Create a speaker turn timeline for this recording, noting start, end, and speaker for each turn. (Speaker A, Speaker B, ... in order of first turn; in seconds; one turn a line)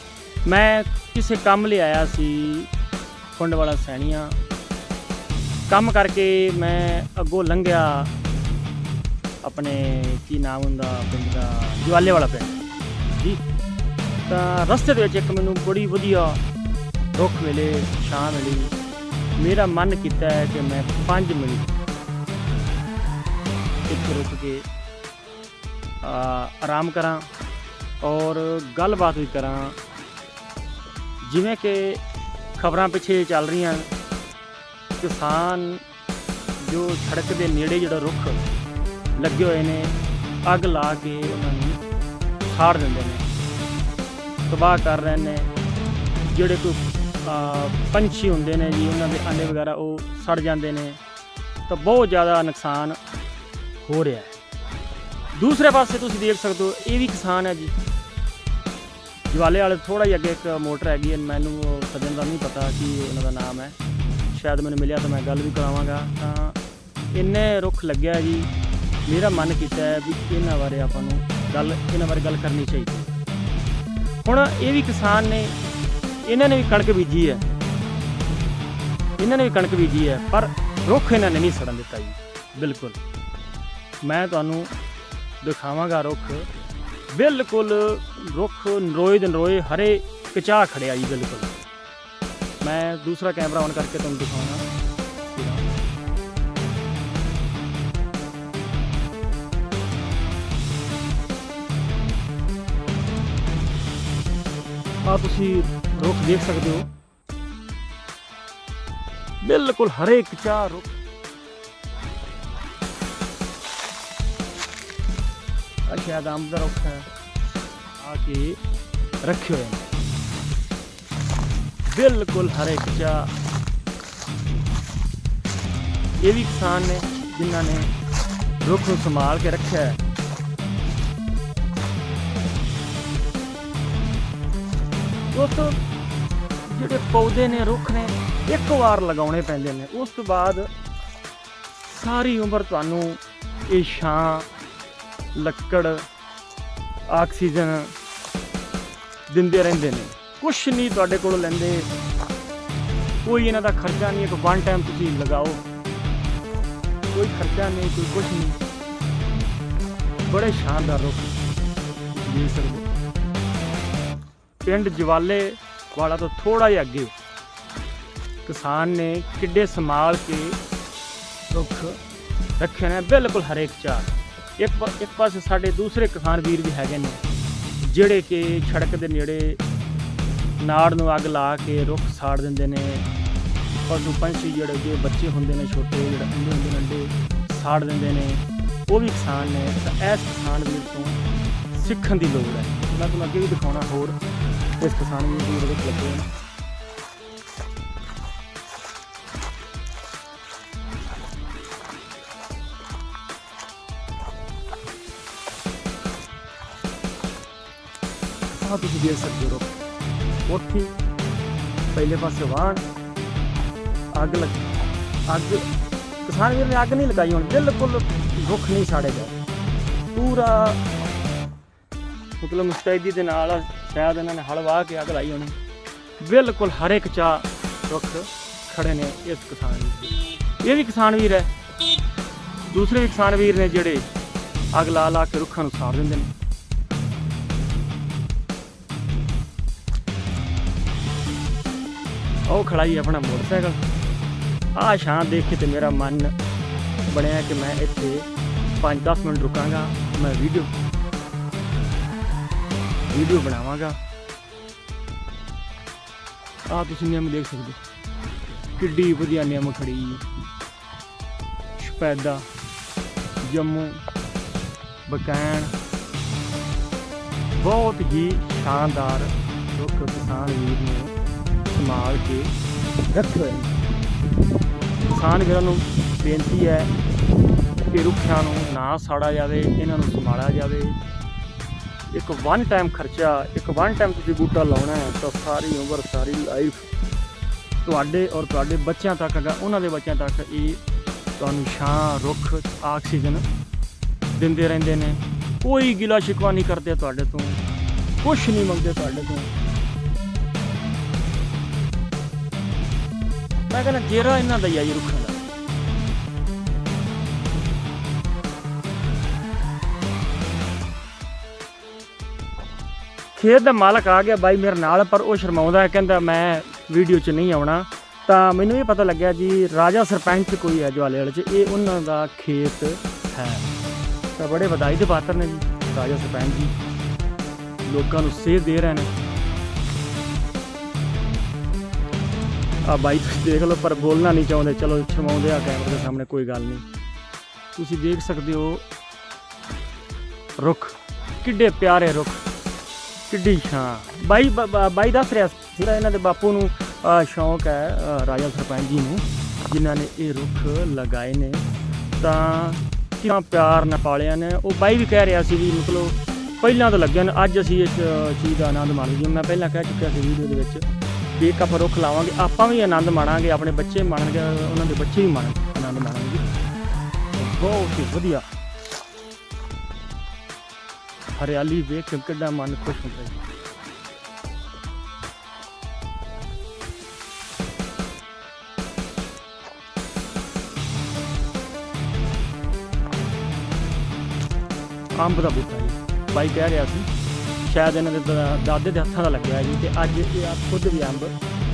Speaker A: 0.4-2.7
Speaker A: 3.3-4.4
Speaker A: 5.7-8.1
Speaker A: 9.4-13.4
Speaker A: 14.3-16.4
Speaker A: 17.1-18.8
Speaker A: 19.4-21.8
Speaker A: 23.9-24.7
Speaker A: 26.0-27.3
Speaker A: 28.0-29.8
Speaker A: 31.2-32.0
Speaker A: 32.5-33.9
Speaker A: 35.0-35.8
Speaker A: 36.6-38.4
Speaker A: 39.1-41.8
Speaker A: 42.4-43.2
Speaker A: 44.5-45.5
Speaker A: 46.2-51.0
Speaker A: 51.7-53.0
Speaker A: 53.8-54.3
Speaker A: 55.3-57.7
Speaker A: 59.3-63.8
Speaker A: 64.3-66.6
Speaker A: 67.1-68.5
Speaker A: 69.0-73.2
Speaker A: 74.2-75.7
Speaker A: 76.2-77.5
Speaker A: 79.2-83.0
Speaker A: 84.0-84.7
Speaker A: 85.4-86.5
Speaker A: 87.1-91.5
Speaker A: 92.6-94.6
Speaker A: 95.2-95.7
Speaker A: 105.0-106.9
Speaker A: 109.4-110.9
Speaker A: 115.9-117.1
Speaker A: 118.0-118.6
Speaker A: 119.2-119.8
Speaker A: 121.8-123.3
Speaker A: 126.2-127.9
Speaker A: 128.6-130.0
Speaker A: 135.3-135.8
Speaker A: 136.7-140.7
Speaker A: 141.8-144.5
Speaker A: 145.3-146.1
Speaker A: 147.1-147.9
Speaker A: 149.3-151.9
Speaker A: 153.2-155.6
Speaker A: 157.1-158.6
Speaker A: 160.2-161.3
Speaker A: 162.1-162.9
Speaker A: 164.6-167.1
Speaker A: 168.4-170.6
Speaker A: 171.5-172.0
Speaker A: 172.6-177.2
Speaker A: 177.8-179.6
Speaker A: 180.6-183.1
Speaker A: 183.8-191.2
Speaker A: 191.7-194.2
Speaker A: 194.8-196.3
Speaker A: 208.5-209.7
Speaker A: 210.4-210.9
Speaker A: 211.9-212.8
Speaker A: 214.1-214.6
Speaker A: 215.3-215.7
Speaker A: 216.2-219.4
Speaker A: 220.1-220.8
Speaker A: 222.4-225.6
Speaker A: 226.2-231.5
Speaker A: 232.7-234.1
Speaker A: 234.7-236.3
Speaker A: 242.4-243.8
Speaker A: 244.7-246.3
Speaker A: 247.1-248.3
Speaker A: 248.8-250.7
Speaker A: 253.1-254.0
Speaker A: 256.7-257.8
Speaker A: 258.8-260.2
Speaker A: 261.8-262.5
Speaker A: 263.4-264.1
Speaker A: 265.1-265.7
Speaker A: 267.5-272.5
Speaker A: 273.1-273.8
Speaker A: 275.0-276.9
Speaker A: 277.8-281.0
Speaker A: 282.1-286.9
Speaker A: 287.8-290.8
Speaker A: 291.4-293.4
Speaker A: 294.3-297.6
Speaker A: 298.2-299.5
Speaker A: 303.7-305.4
Speaker A: 313.3-323.7
Speaker A: 324.4-326.7
Speaker A: 327.8-329.1
Speaker A: 332.8-336.8
Speaker A: 337.7-338.8
Speaker A: 340.6-342.4
Speaker A: 343.3-351.7
Speaker A: 352.2-360.8
Speaker A: 361.3-366.5
Speaker A: 367.3-368.5
Speaker A: 371.3-373.3
Speaker A: 385.1-387.1
Speaker A: 387.6-391.3